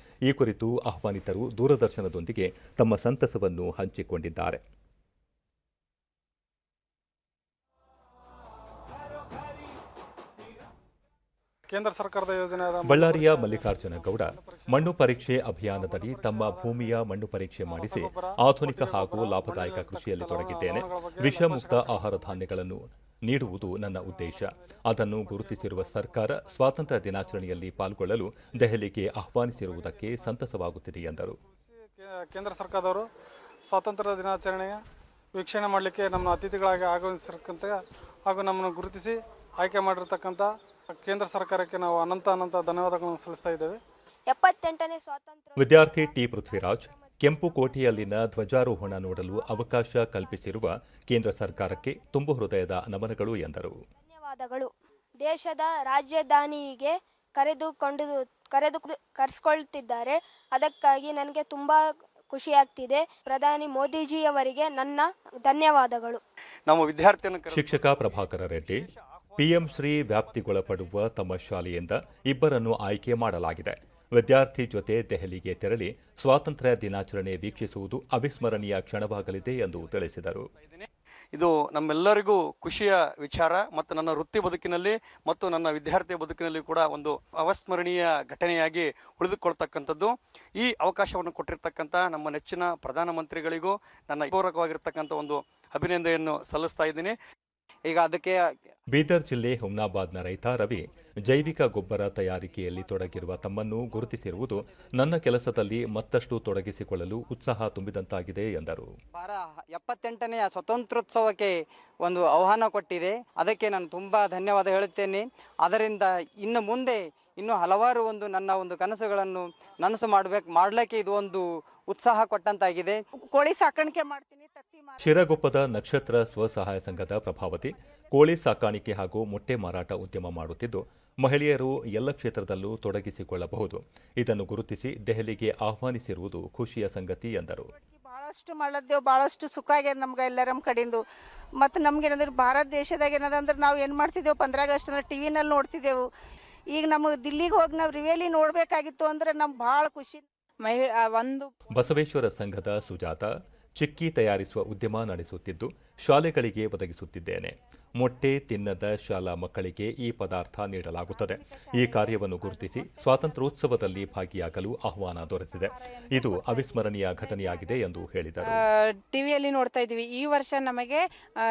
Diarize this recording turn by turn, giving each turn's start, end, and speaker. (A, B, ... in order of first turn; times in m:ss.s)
0:00.3-0:04.6 A
0:11.7-0:17.0 B
0:12.8-0:31.4 A
0:17.6-0:22.5 B
0:23.4-0:27.9 B
0:29.5-0:30.4 B
0:31.7-0:33.1 B
0:33.7-0:34.8 B
0:35.3-0:40.5 B
0:41.0-0:43.8 B
0:44.3-0:48.1 C
0:45.6-0:53.8 A
0:48.7-0:50.6 C
0:51.5-0:52.0 C
0:54.0-0:54.7 C
0:55.2-1:06.2 C
1:06.7-1:11.2 D
1:07.5-1:08.8 A
1:09.4-1:20.5 A
1:19.6-1:19.9 D
1:20.5-1:37.2 D
1:37.8-1:38.5 E
1:38.9-1:48.9 A
1:49.1-2:03.0 E
2:03.3-2:05.3 F
2:05.0-2:17.7 A
2:17.7-2:21.0 F
2:21.6-2:26.0 F
2:26.7-2:30.2 F
2:30.6-2:31.5 G
2:31.7-2:48.6 A
2:41.1-2:44.3 G
2:45.5-2:48.0 G
2:48.7-2:51.0 G